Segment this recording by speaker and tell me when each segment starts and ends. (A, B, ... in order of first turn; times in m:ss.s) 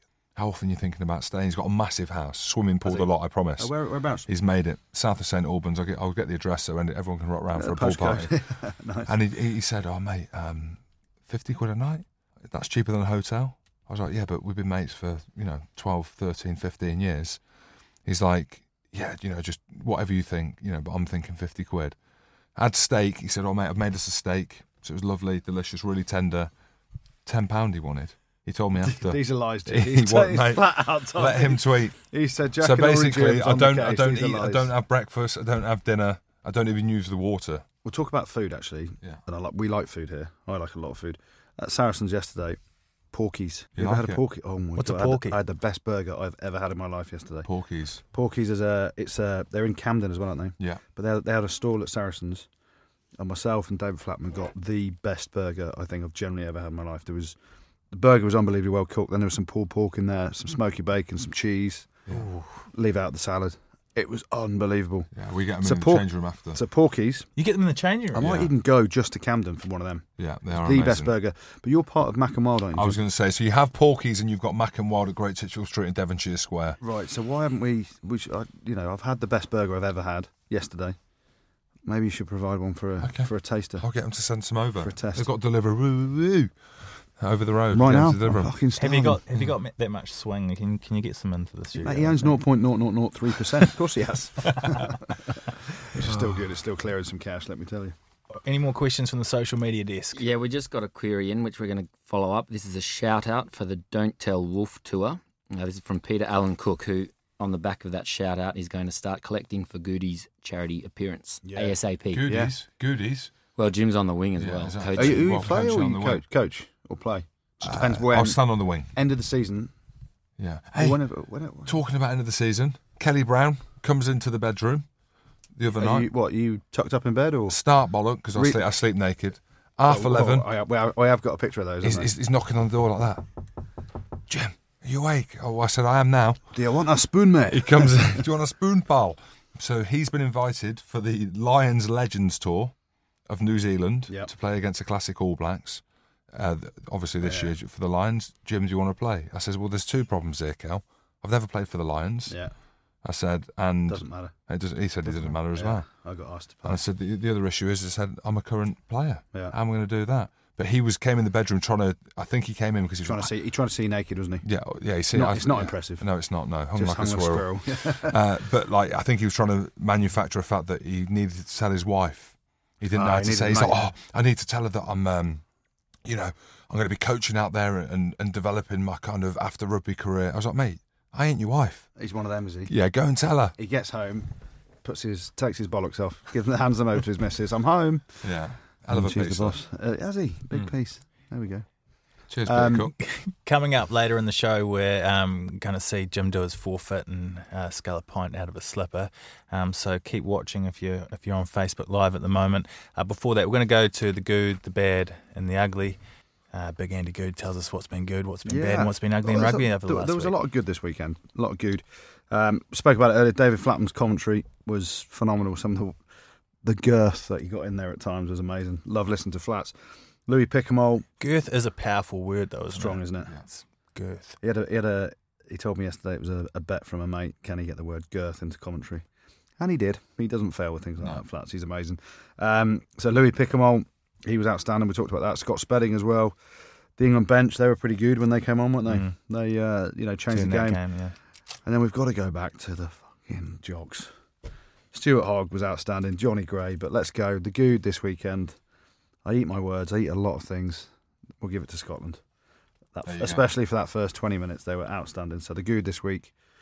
0:00.3-0:03.7 A
0:02.8-0:04.3 B
0:04.2-0:08.3 A
0:07.5-0:09.1 B
0:09.0-0:17.4 A
0:18.0-0:22.0 A
0:22.6-0:26.5 A
0:27.2-0:31.9 A
0:28.8-0:34.7 B
0:32.6-0:37.6 A
0:37.8-0:42.6 B
0:43.1-0:47.5 B
0:43.8-0:44.2 A
0:44.8-0:45.4 C
0:47.4-0:48.0 A
0:48.1-0:52.5 B
0:53.2-0:57.4 B
0:57.9-1:01.9 B
1:02.1-1:02.6 C
1:02.7-1:05.1 B
1:05.1-1:06.6 A
1:05.6-1:07.3 B
1:07.4-1:08.4 C
1:08.1-1:10.0 B
1:10.2-1:11.1 A
1:10.6-1:13.0 B
1:12.7-1:16.8 A
1:16.8-1:21.0 B
1:21.8-1:23.8 B
1:23.0-1:26.5 A
1:24.8-1:25.3 B
1:27.2-1:28.5 A
1:27.7-1:29.2 B
1:28.8-1:32.4 C
1:31.8-1:37.9 B
1:36.0-1:36.4 A
1:38.4-1:40.2 C
1:40.1-1:52.3 D
1:51.4-1:52.5 B
1:52.1-1:53.3 A
1:53.5-1:55.4 D
1:54.4-1:56.2 A
1:54.9-1:59.7 B
1:57.6-1:58.9 A
2:00.4-2:01.0 A
2:00.8-2:01.8 B
2:01.6-2:04.8 A
2:05.6-2:06.1 A
2:05.8-2:07.6 B
2:07.5-2:10.5 A
2:08.3-2:08.6 B
2:09.9-2:12.1 B
2:11.8-2:13.2 A
2:14.3-2:16.5 A
2:16.5-2:18.2 B
2:17.5-2:22.7 A
2:23.3-2:32.4 A
2:27.2-2:27.5 B
2:33.0-2:35.8 A
2:33.9-2:34.3 B
2:35.0-2:36.8 B
2:36.6-2:43.3 A
2:43.0-2:44.4 B
2:44.4-2:55.4 A
2:45.1-2:46.0 B
2:46.7-2:48.2 B
2:52.9-2:53.8 B
2:56.0-3:01.9 A
3:02.0-3:02.7 B
3:02.7-3:03.5 A
3:03.6-3:04.3 B
3:04.8-3:08.2 B
3:08.2-3:09.6 A
3:08.9-3:11.6 B
3:12.3-3:12.9 A
3:12.4-3:12.9 B
3:13.0-3:26.0 C
3:26.5-3:30.4 C
3:28.4-3:36.0 B
3:36.6-3:39.7 B
3:40.2-3:41.0 B
3:41.2-3:44.4 C
3:42.7-3:43.3 B
3:44.4-3:49.0 B
3:49.6-3:56.4 B
3:57.0-4:00.8 B
3:58.8-3:59.1 C
4:00.3-4:01.1 C
4:01.6-4:04.1 B
4:04.9-4:08.5 B
4:09.2-4:12.2 B
4:12.9-4:16.3 B
4:13.0-4:13.4 A